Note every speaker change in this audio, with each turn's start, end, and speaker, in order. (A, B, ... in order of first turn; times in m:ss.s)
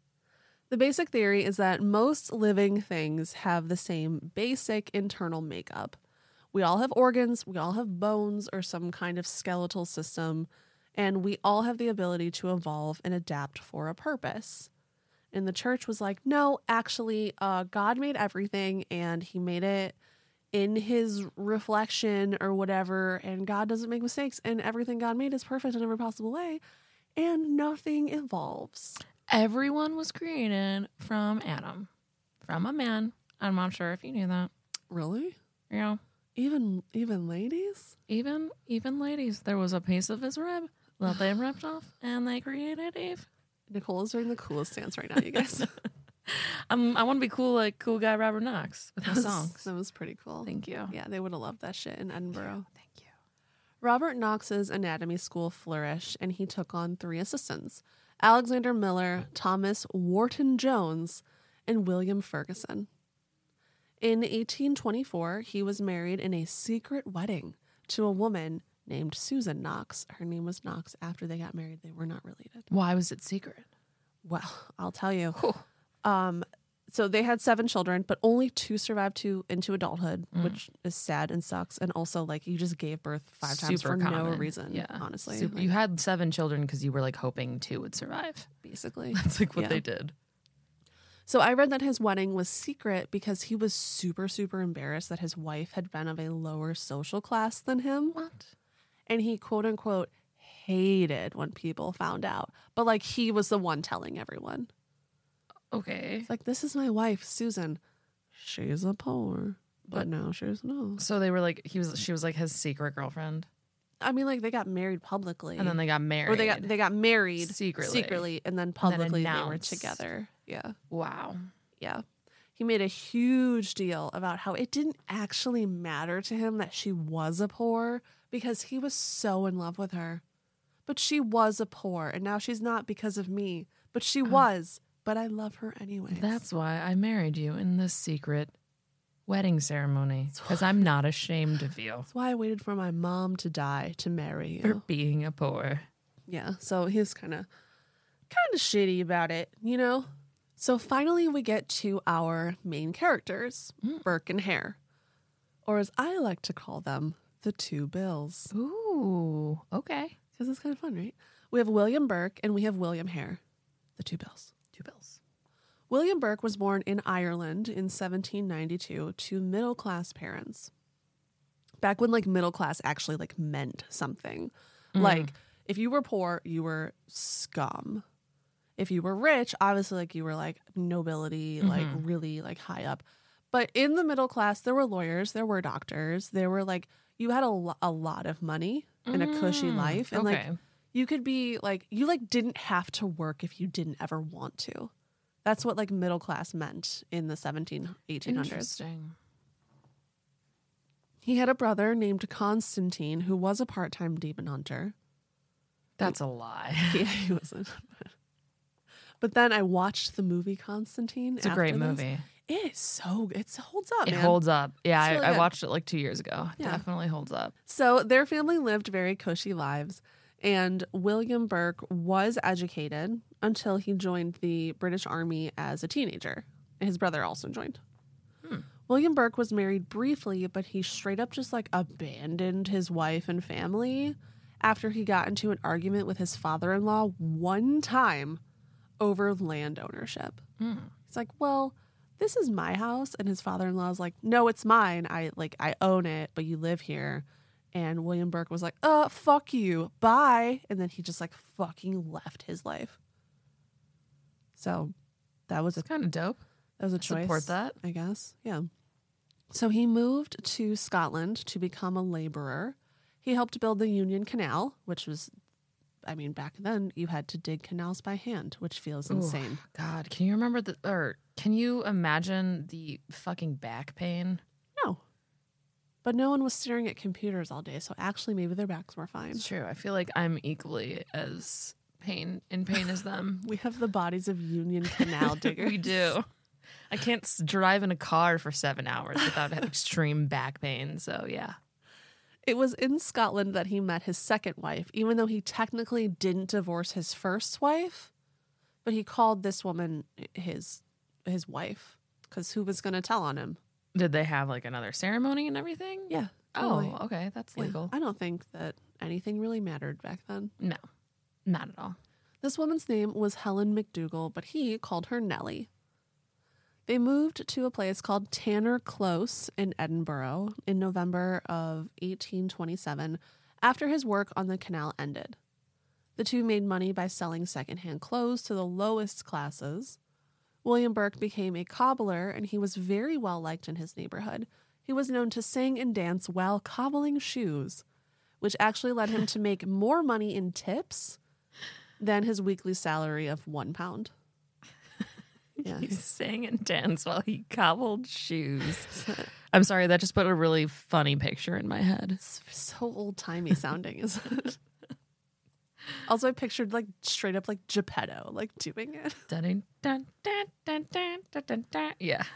0:00.7-0:06.0 A
0:06.5-0:14.7 A
0:15.3-0:20.0 A
0:20.5-0:26.6 A
0:27.2-0:29.0 A
0:29.3-0:31.9 B
0:32.4-0:34.5 B
0:34.9-0:35.4 A
0:35.7-0:36.0 B
0:36.4-0:38.0 A
0:38.1-0:43.3 B
0:43.7-0:45.7 A
0:46.3-0:49.7 B
0:49.0-0:52.7 A
0:50.4-0:51.0 B
0:52.7-0:53.1 B
0:53.8-1:02.9 A
1:04.0-1:12.7 A
1:12.7-1:13.7 B
1:14.2-1:15.4 A
1:15.4-1:15.6 B
1:16.0-1:25.7 A
1:23.4-1:28.5 B
1:28.6-1:29.8 A
1:29.1-1:30.1 B
1:31.3-1:38.2 A
1:38.2-1:38.5 B
1:39.1-1:44.7 A
1:45.7-1:46.3 B
1:46.3-1:47.8 A
1:48.4-1:51.0 A
1:51.0-1:53.5 B
1:54.0-2:00.8 A
1:55.6-1:56.7 B
1:57.4-1:58.3 B
1:58.8-2:00.0 B
2:00.9-2:01.5 B
2:01.8-2:02.0 A
2:02.6-2:10.2 A
2:10.9-2:16.4 A
2:16.1-2:18.6 B
2:19.3-2:22.1 B
2:20.4-2:20.8 A
2:22.1-2:24.8 A
2:24.6-2:25.9 B
2:26.3-2:27.5 A
2:28.3-2:34.8 A
2:35.6-2:38.5 A
2:38.5-2:40.2 B
2:40.4-2:43.4 A
2:44.0-2:44.5 A
2:44.7-2:45.2 B
2:45.9-2:50.7 A
2:51.8-2:58.0 A
2:55.0-2:55.3 B
2:58.8-3:14.9 A
3:01.6-3:02.0 B
3:09.1-3:10.6 B
3:15.4-3:18.7 A
3:18.2-3:19.2 B
3:21.2-3:24.9 A
3:26.0-3:27.1 B
3:26.9-3:28.1 A
3:29.2-3:34.4 A
3:31.4-3:32.3 B
3:34.0-3:37.5 B
3:35.0-3:35.5 A
3:37.7-3:47.8 A
3:48.9-3:58.4 A
3:59.0-4:00.4 A
4:00.6-4:00.9 B
4:01.1-4:13.0 A
4:14.6-4:14.9 A
4:15.5-4:15.8 A
4:15.8-4:16.4 B
4:16.8-4:18.7 A
4:17.0-4:17.8 B
4:19.5-4:25.3 A
4:26.0-4:29.6 A
4:29.1-4:34.4 B
4:36.0-4:39.5 A
4:39.3-4:43.5 B
4:43.4-4:46.2 A
4:45.0-4:46.3 B
4:46.9-4:51.6 B
4:52.4-4:58.1 A
4:58.8-5:03.6 A
5:04.0-5:07.9 B
5:06.1-5:07.0 A
5:07.6-5:10.5 A
5:11.5-5:12.0 B
5:12.4-5:15.7 A
5:16.9-5:25.4 A
5:26.2-5:30.0 A
5:30.6-5:37.8 A
5:38.4-5:41.2 A
5:42.0-5:44.1 A
5:45.6-5:52.2 B
5:45.6-5:46.0 A
5:48.9-5:49.2 A
5:52.2-5:54.6 A
5:56.1-5:59.2 A
5:59.3-6:02.3 B